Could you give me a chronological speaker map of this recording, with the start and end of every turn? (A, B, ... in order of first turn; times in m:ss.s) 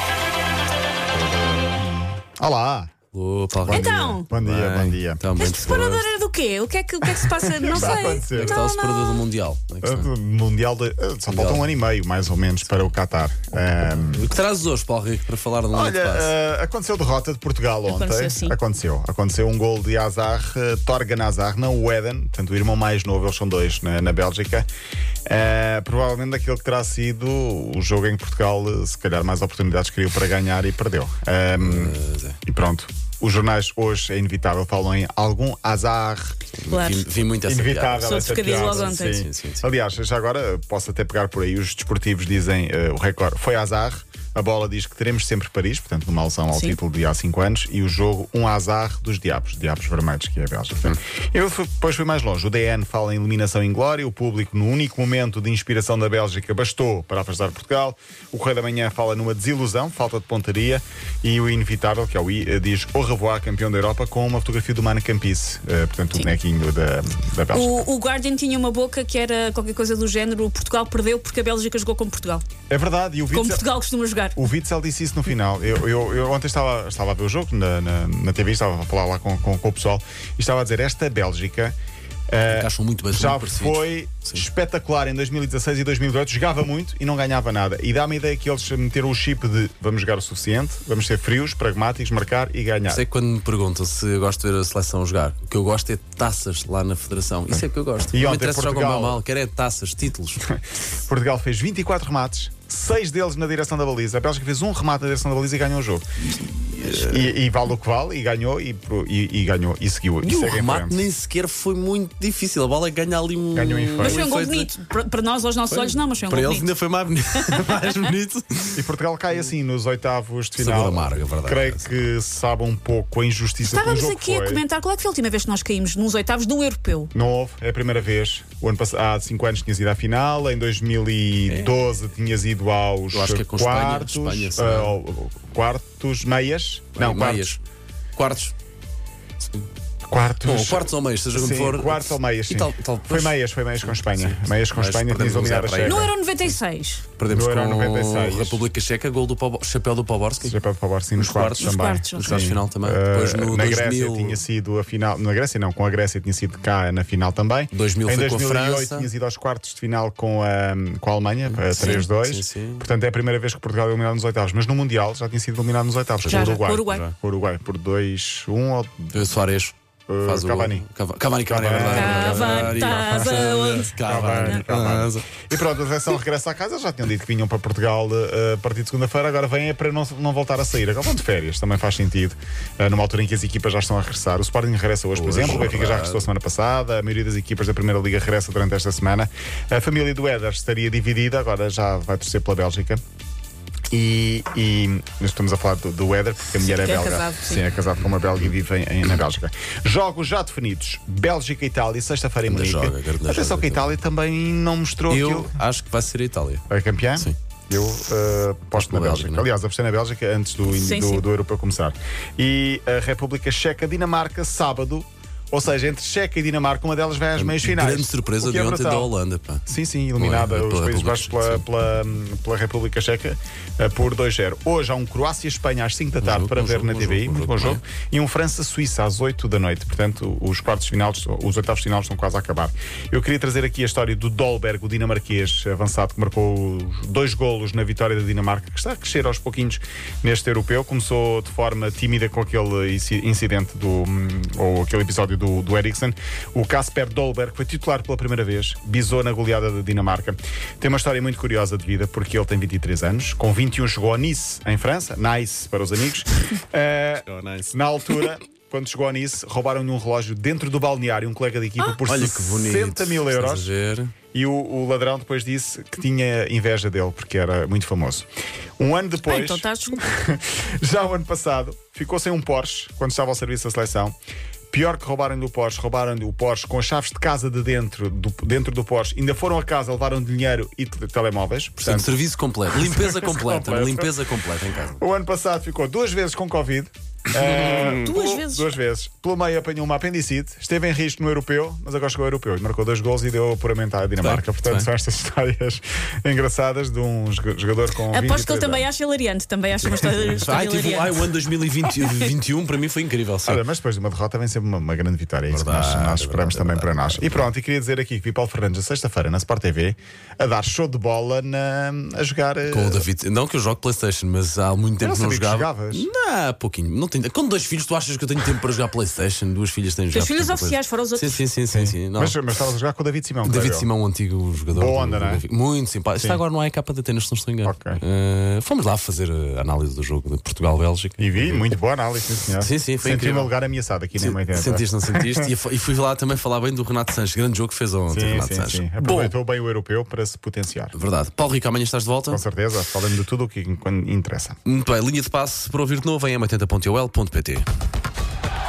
0:01.2-0:02.9 A
0:03.1-0:06.1 B
0:03.6-0:05.2 A
0:03.7-0:04.3 C
0:05.4-0:09.2 C
0:07.7-0:08.6 A
0:07.8-0:10.1 B
0:09.8-0:14.3 A
0:11.3-0:11.7 B
0:13.8-0:16.3 B
0:15.7-0:24.7 A
0:17.9-0:18.6 C
0:25.3-0:36.4 A
0:31.6-0:32.4 B
0:36.6-0:39.7 B
0:36.7-0:37.1 C
0:37.5-1:07.9 A
0:38.0-0:39.2 C
0:46.5-0:46.8 C
1:07.5-1:12.4 C
1:12.7-1:13.7 A
1:13.3-1:14.4 C
1:14.3-1:21.8 A
1:22.3-1:33.0 A
1:22.5-1:24.5 B
1:32.9-1:40.4 B
1:38.1-1:39.2 A
1:40.4-1:46.0 A
1:46.3-1:47.4 B
1:46.8-1:51.1 A
1:50.2-1:54.7 B
1:53.5-1:54.2 A
1:54.0-1:56.7 C
1:55.7-1:58.8 B
1:57.5-1:57.8 C
1:58.8-2:04.6 A
2:00.6-2:02.0 B
2:03.6-2:07.1 C
2:07.1-2:17.5 A
2:11.5-2:11.8 B
2:13.1-2:15.0 B
2:17.0-2:17.6 B
2:18.2-2:18.5 B
2:20.1-2:26.2 A
2:20.4-2:26.2 B
2:25.8-2:27.0 C
2:27.2-2:30.6 B
2:27.3-2:28.6 A
2:30.4-2:49.2 A
2:31.2-2:34.4 B
2:31.6-2:32.4 C
2:37.7-2:39.1 B
2:41.5-2:42.9 B
2:41.8-2:42.1 C
2:46.2-2:47.2 B
2:46.3-2:47.0 C
2:49.1-2:55.4 B
2:50.1-2:50.9 A
2:51.5-2:53.4 A
2:51.9-2:54.6 C
2:54.0-3:13.0 A
3:05.2-3:06.3 B
3:13.9-3:25.5 A
3:16.6-3:17.7 C
3:22.5-3:24.0 B
3:25.1-3:26.6 B
3:26.7-3:39.1 A
3:28.7-3:29.5 B
3:30.7-3:31.3 C
3:37.4-3:41.6 B
3:39.7-4:23.7 A
3:46.2-3:47.8 B
4:17.3-4:17.8 B
4:22.0-4:24.1 B
4:24.3-4:28.3 A
4:28.8-4:34.2 A
4:29.2-4:30.0 C
4:34.7-4:42.2 A
4:41.8-4:45.0 B
4:42.7-4:44.2 A
4:45.0-4:58.9 A
4:47.4-4:48.0 B
4:48.0-4:48.7 C
4:54.2-4:54.9 B
4:58.1-5:01.3 C
4:59.9-5:00.3 A
5:00.4-5:03.6 B
5:01.9-5:02.3 C
5:03.4-5:13.1 A
5:05.5-5:07.5 B
5:12.7-5:22.4 B
5:15.0-5:16.1 A
5:20.1-5:21.4 C
5:21.7-5:23.9 A
5:23.4-5:31.7 B
5:24.7-5:25.4 A
5:26.2-5:26.4 A
5:27.6-5:28.0 A
5:31.2-5:35.5 A
5:32.6-5:33.5 B
5:34.2-5:39.4 B
5:38.1-5:40.9 A
5:40.9-5:42.4 B
5:42.3-5:44.6 A
5:44.7-5:47.7 B